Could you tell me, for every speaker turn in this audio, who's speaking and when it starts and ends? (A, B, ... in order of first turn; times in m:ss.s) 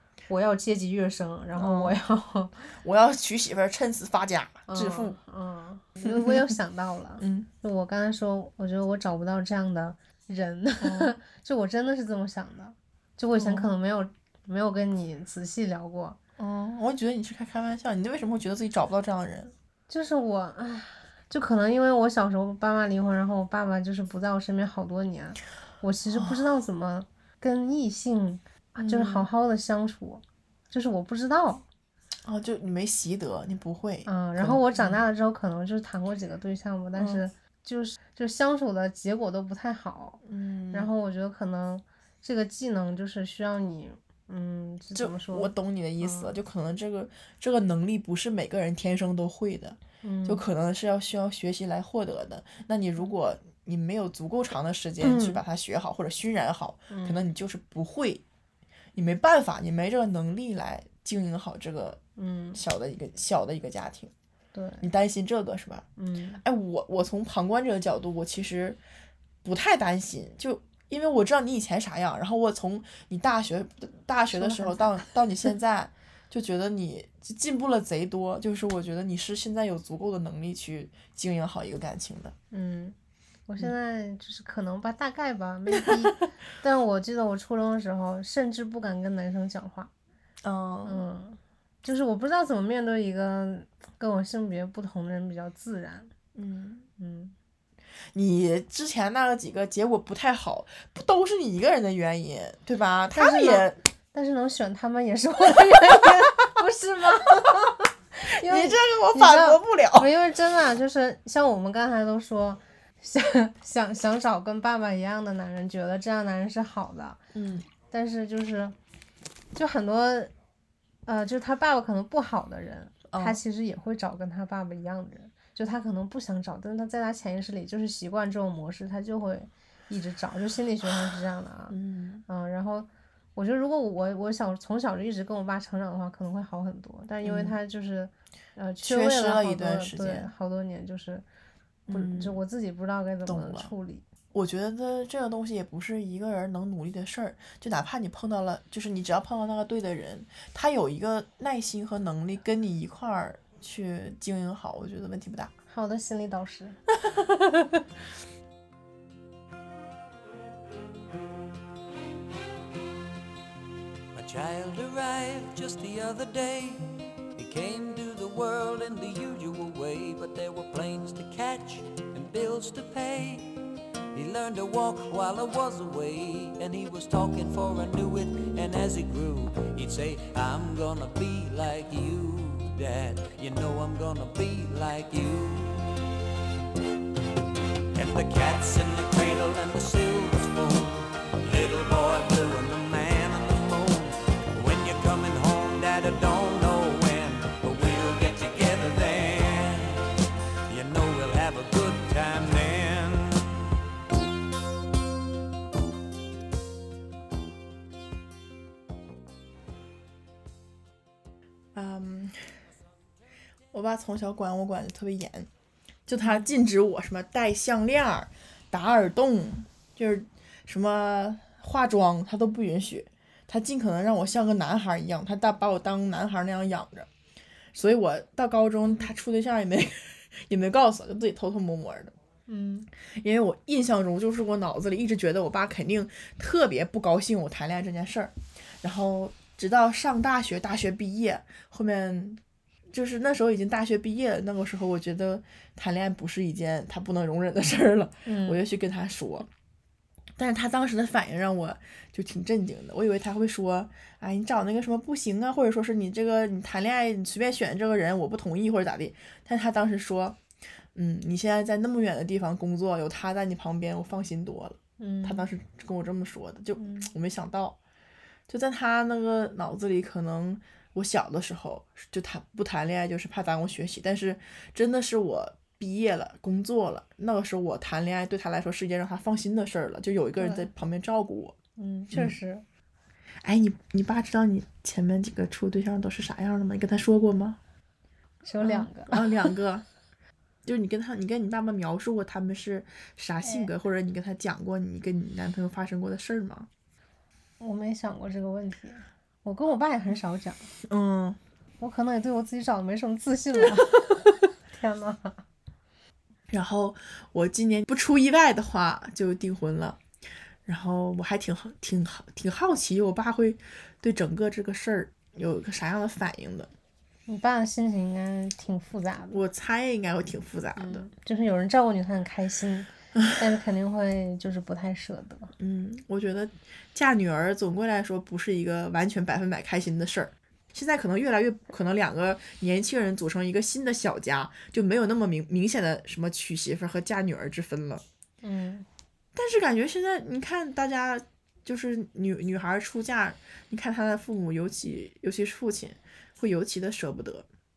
0:00.3-0:02.7 A
0:01.6-0:02.0 B
0:02.8-0:05.2 B
0:04.7-0:16.2 A
0:06.0-0:06.5 B
0:07.2-0:07.5 B
0:10.8-0:11.2 B
0:13.4-0:13.7 B
0:16.4-0:19.5 B
0:19.9-0:31.6 A
0:26.1-0:26.4 B
0:28.8-0:29.3 B
0:32.3-0:35.0 B
0:34.1-0:46.3 A
0:37.0-0:37.2 B
0:40.2-0:40.9 B
0:45.0-0:58.2 B
0:50.0-0:50.4 A
0:55.0-0:55.4 A
0:56.9-0:57.3 A
0:59.0-1:02.0 B
1:02.2-1:02.6 A
1:02.6-1:04.1 B
1:04.5-1:04.9 A
1:04.8-1:05.8 B
1:06.0-1:06.4 A
1:06.4-1:08.8 B
1:09.4-1:22.4 B
1:14.3-1:15.1 A
1:22.5-1:23.0 A
1:23.5-1:29.9 A
1:30.4-1:31.1 B
1:30.8-1:36.1 A
1:36.4-1:36.9 B
1:37.0-1:37.4 A
1:38.1-1:43.8 B
1:43.1-1:57.2 A
1:48.2-1:50.1 B
1:57.3-1:57.7 B
1:57.9-1:58.8 A
1:59.6-2:00.3 A
2:01.1-2:21.2 A
2:03.1-2:03.4 B
2:11.7-2:12.2 B
2:17.2-2:17.6 B
2:18.8-2:20.3 B
2:21.9-2:22.4 B
2:21.9-2:24.0 A
2:23.3-2:23.7 B
2:24.3-2:35.5 B
2:35.7-2:36.8 A
2:44.1-3:05.8 C
3:07.9-3:20.1 C
3:20.7-3:23.5 C
3:31.8-3:32.6 B
3:33.7-3:35.5 B
3:36.1-3:47.1 B
3:47.7-3:52.2 B
3:52.5-3:52.9 A
3:53.1-4:09.5 B
4:08.3-4:08.6 A
4:10.4-4:20.4 B
4:21.0-4:27.8 B
4:25.0-4:25.5 A
4:28.5-4:41.6 B
4:40.4-4:40.7 A
4:41.8-4:42.6 A
4:43.4-4:47.6 B
4:48.4-4:49.5 A
4:48.6-4:49.8 B
4:50.6-4:56.7 B
4:53.4-4:53.7 A
4:57.6-5:00.7 A
5:00.8-5:01.4 B
5:01.8-5:05.4 A
5:06.5-5:10.0 B
5:10.7-5:16.7 B
5:17.3-5:19.4 A
5:19.3-5:21.0 B
5:20.8-5:25.5 A
5:25.6-5:38.0 B
5:38.4-5:38.9 A
5:39.4-5:47.5 B